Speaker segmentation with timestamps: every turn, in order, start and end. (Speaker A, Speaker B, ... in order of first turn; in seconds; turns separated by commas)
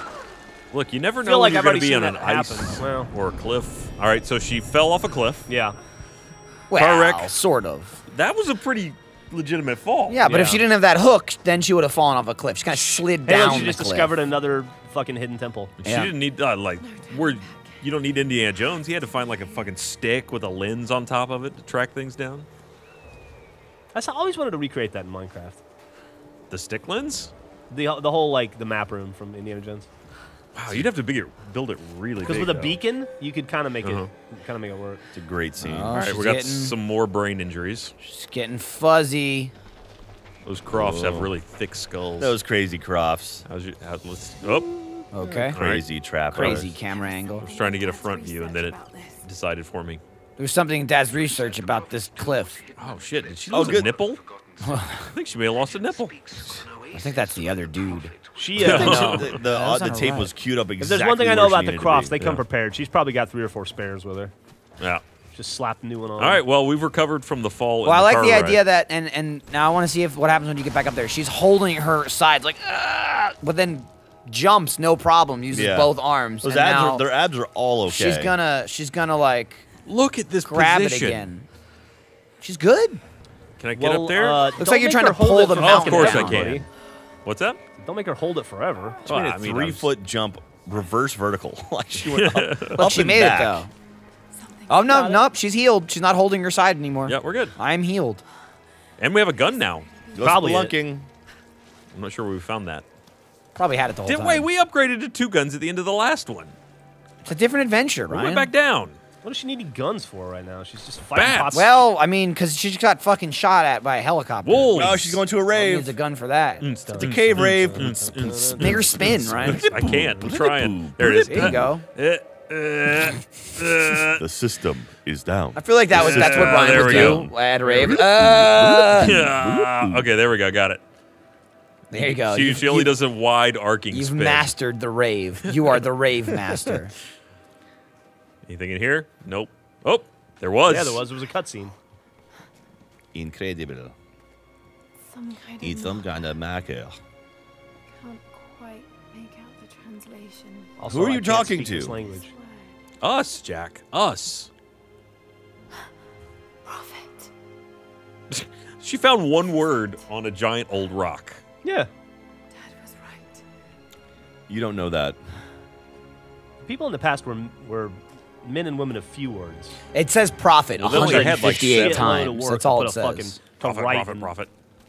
Speaker A: 0.7-5.5, Speaker B: 1.2-3.1, Speaker B: 5.5-5.8, Speaker C: 6.7-8.0, Speaker A: 6.8-7.3, Speaker A: 8.1-10.2, Speaker C: 10.1-14.1, Speaker B: 10.2-10.6, Speaker B: 13.2-15.8, Speaker A: 15.8-22.5, Speaker C: 15.8-16.1, Speaker D: 16.8-17.9, Speaker D: 19.0-19.7, Speaker B: 23.9-25.6, Speaker A: 26.5-27.3, Speaker B: 27.7-29.9, Speaker A: 30.5-32.8, Speaker B: 32.2-35.0, Speaker A: 33.8-34.1, Speaker E: 35.1-36.1, Speaker C: 35.6-36.8, Speaker A: 35.9-37.9, Speaker C: 38.0-39.5, Speaker A: 40.4-42.4, Speaker E: 40.7-41.3, Speaker E: 42.2-43.4, Speaker A: 43.5-46.6, Speaker C: 45.1-45.8, Speaker E: 45.5-46.7, Speaker C: 46.3-47.5, Speaker D: 46.7-49.2, Speaker A: 47.4-50.0, Speaker C: 50.4-52.6, Speaker A: 52.8-54.2, Speaker E: 53.5-54.0, Speaker C: 54.6-55.1, Speaker A: 55.0-56.7, Speaker C: 56.9-60.3, Speaker B: 58.3-59.1, Speaker E: 58.5-62.2, Speaker A: 58.6-59.4, Speaker B: 60.8-64.3, Speaker B: 65.3-66.4, Speaker A: 66.2-68.6, Speaker C: 67.8-77.0, Speaker E: 75.5-78.4, Speaker C: 77.9-79.7, Speaker A: 79.8-81.3, Speaker C: 80.4-81.5, Speaker C: 82.4-83.0, Speaker A: 83.6-84.5, Speaker B: 83.8-86.6, Speaker C: 84.6-86.5, Speaker A: 85.5-86.6, Speaker A: 87.2-87.6, Speaker B: 87.8-89.0, Speaker E: 89.0-93.7, Speaker A: 89.0-89.9, Speaker A: 92.0-92.9, Speaker C: 92.8-93.7, Speaker D: 94.3-94.9, Speaker C: 94.7-98.2, Speaker B: 94.8-95.2, Speaker A: 97.0-97.5, Speaker A: 99.0-99.9, Speaker D: 99.4-100.4, Speaker E: 100.1-101.1, Speaker B: 100.2-100.7, Speaker A: 101.9-102.8, Speaker C: 103.5-104.5, Speaker A: 104.0-106.5, Speaker C: 107.2-108.5, Speaker A: 108.1-109.0, Speaker B: 109.2-111.8, Speaker A: 111.1-111.6, Speaker C: 111.5-116.7, Speaker A: 114.4-115.2, Speaker E: 114.7-115.9, Speaker A: 116.6-124.2, Speaker B: 116.9-119.1, Speaker E: 117.0-121.7, Speaker C: 118.6-119.7, Speaker C: 121.0-121.8, Speaker B: 121.3-121.6, Speaker E: 124.2-130.1, Speaker C: 125.5-129.2, Speaker A: 125.9-127.3, Speaker A: 128.9-130.8, Speaker C: 131.9-132.9, Speaker A: 131.9-134.5, Speaker C: 133.9-136.9, Speaker A: 138.4-141.0, Speaker B: 140.7-141.7, Speaker E: 143.1-143.9, Speaker D: 145.0-146.1, Speaker E: 145.6-147.0, Speaker D: 148.0-150.7, Speaker B: 150.8-152.3, Speaker E: 150.9-151.9, Speaker D: 151.9-152.8, Speaker A: 153.0-154.5, Speaker D: 156.7-157.3, Speaker A: 158.3-161.4, Speaker B: 161.6-161.9, Speaker D: 162.5-163.4, Speaker E: 164.5-165.2, Speaker B: 166.6-169.8, Speaker C: 169.9-173.3, Speaker B: 170.8-174.3, Speaker A: 170.9-172.1, Speaker E: 170.9-172.1, Speaker A: 173.6-174.5